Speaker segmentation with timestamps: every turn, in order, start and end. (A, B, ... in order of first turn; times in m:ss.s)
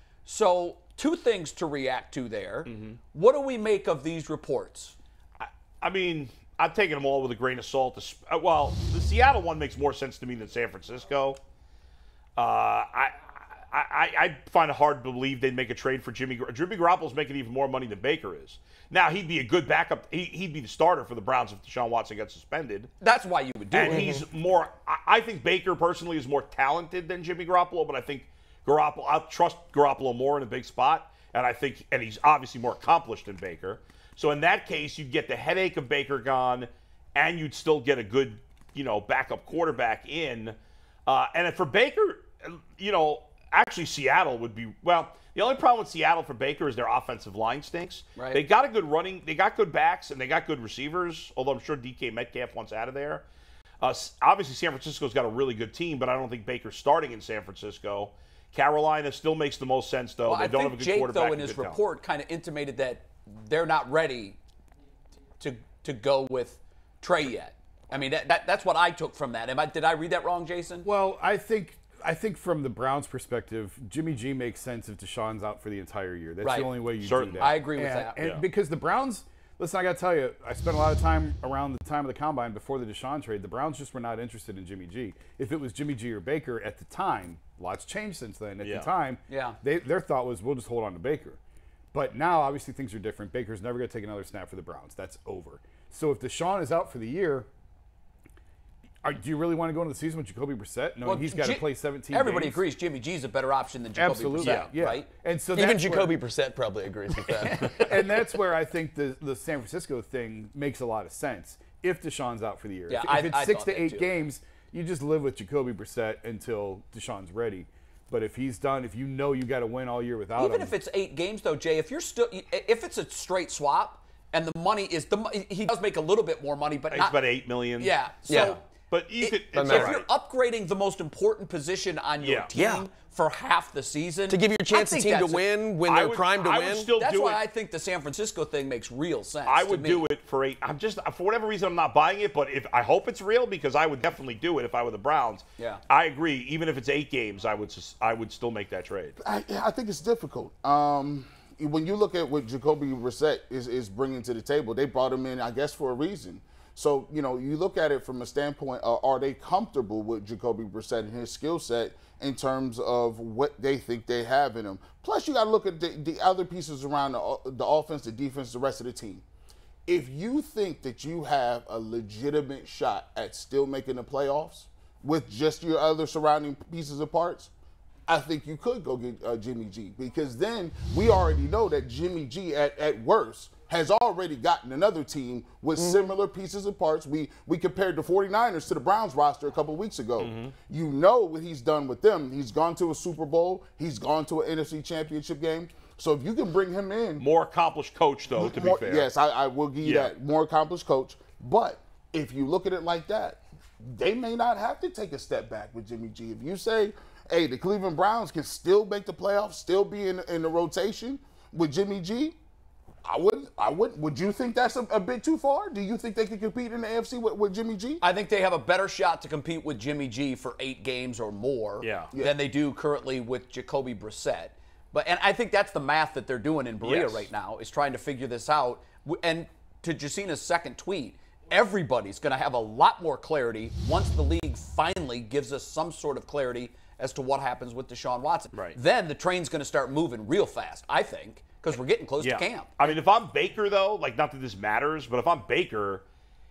0:00.2-0:04.9 A
0:02.6-0:03.0 B
0:05.4-0:11.4 B
0:12.4-0:22.9 B
0:23.0-0:24.2 A
0:23.7-0:53.2 B
0:48.2-0:48.4 A
0:53.8-1:01.8 B
1:00.2-1:04.4 A
1:05.4-1:10.9 A
1:10.8-1:31.4 C
1:16.4-1:16.7 A
1:17.0-1:17.4 B
1:17.4-1:18.2 A
1:28.6-1:28.9 B
1:29.3-1:29.6 A
1:31.9-1:37.5 C
1:39.0-1:42.6 C
1:41.0-1:45.1 A
1:44.0-1:46.2 C
1:44.4-1:44.7 B
1:45.5-1:47.8 D
1:47.4-1:47.9 A
1:47.7-2:00.7 C
1:52.9-1:54.1 A
2:00.3-2:08.6 A
2:06.9-2:10.0 B
2:08.3-2:08.6 D
2:09.2-2:15.4 A
2:09.5-2:10.0 D
2:12.2-2:12.5 B
2:12.5-2:12.8 D
2:14.3-2:16.9 D
2:15.8-2:17.4 B
2:17.0-2:20.1 A
2:19.4-2:29.2 B
2:29.2-2:49.2 E
2:49.9-2:57.5 E
2:58.1-3:17.3 E
3:10.2-3:10.5 B
3:17.2-3:19.1 B
3:18.3-3:32.4 E
3:19.8-3:20.1 B
3:33.0-3:38.0 E
3:38.0-4:03.0 A
3:41.8-3:42.1 B
3:42.1-3:42.4 E
3:46.8-3:47.3 B
4:02.2-4:06.0 B